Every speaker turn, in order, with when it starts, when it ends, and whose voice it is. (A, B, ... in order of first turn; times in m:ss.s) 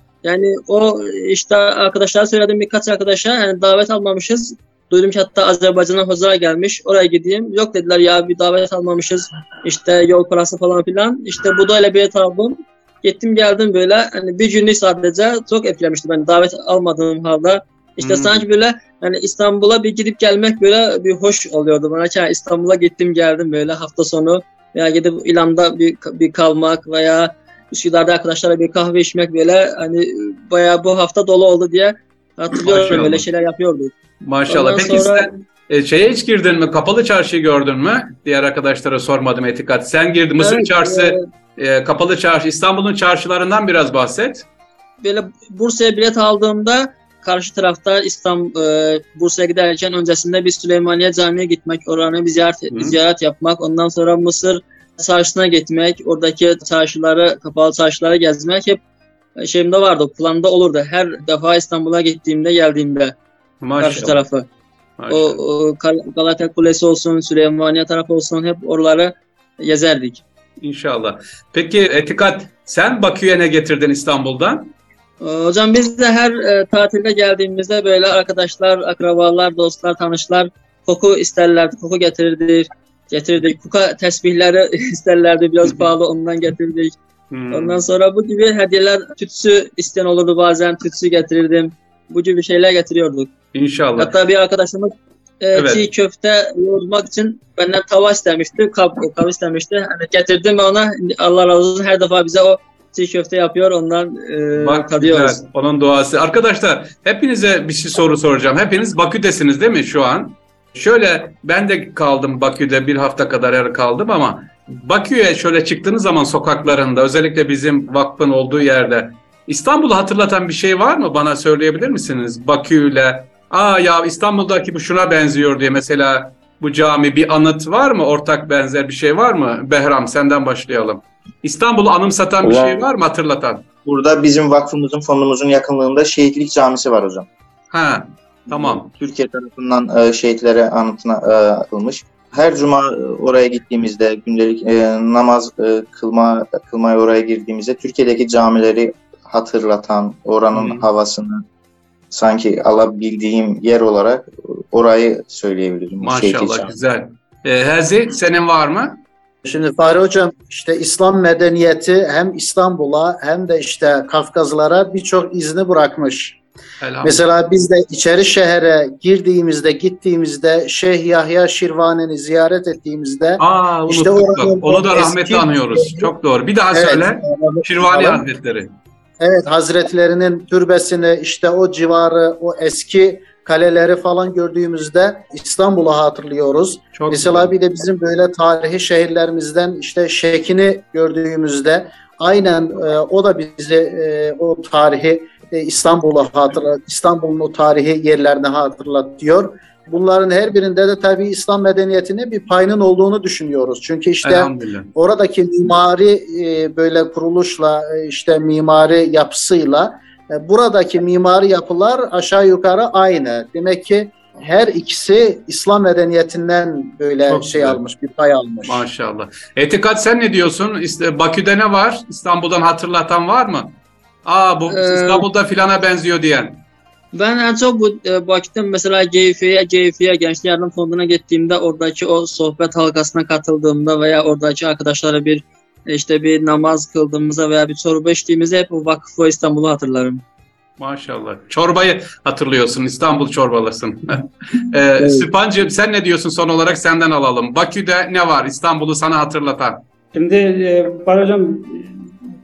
0:00.2-0:33.9 A
0:18.0-0:18.4 B
0:32.6-0:33.2 B
0:34.2-0:44.4 B
0:34.5-0:35.3 A
0:40.4-0:41.2 A
0:45.0-0:58.8 A
0:52.7-0:53.0 B
0:59.4-1:03.2 A
1:03.6-1:04.2 B
1:03.8-1:04.5 A
1:05.0-1:05.4 B
1:05.1-1:10.2 A
1:10.6-1:14.7 B
1:15.2-1:26.9 A
1:27.3-1:27.8 B
1:27.5-1:33.3 A
1:33.5-1:34.1 B
1:33.9-1:45.4 A
1:35.5-1:35.9 B
1:44.6-2:13.6 B
2:12.4-2:12.8 C
2:13.8-2:17.3 C
2:17.7-2:18.8 B
2:18.5-2:31.4 C
2:30.5-2:30.8 B
2:32.1-2:36.7 C
2:36.0-2:39.0 B
2:39.4-2:46.4 D
2:46.8-2:47.2 B
2:47.0-2:56.1 D
2:53.4-2:58.7 B
2:56.7-2:58.2 D
2:59.2-3:38.8 D
3:06.9-3:07.5 B
3:24.2-3:24.9 B
3:37.3-3:37.8 B
3:38.6-3:43.7 B
3:44.2-3:46.6 B
3:44.7-3:45.2 A
3:47.1-4:00.2 A
4:00.8-4:09.8 B
4:05.0-4:05.3 A
4:10.1-4:12.1 E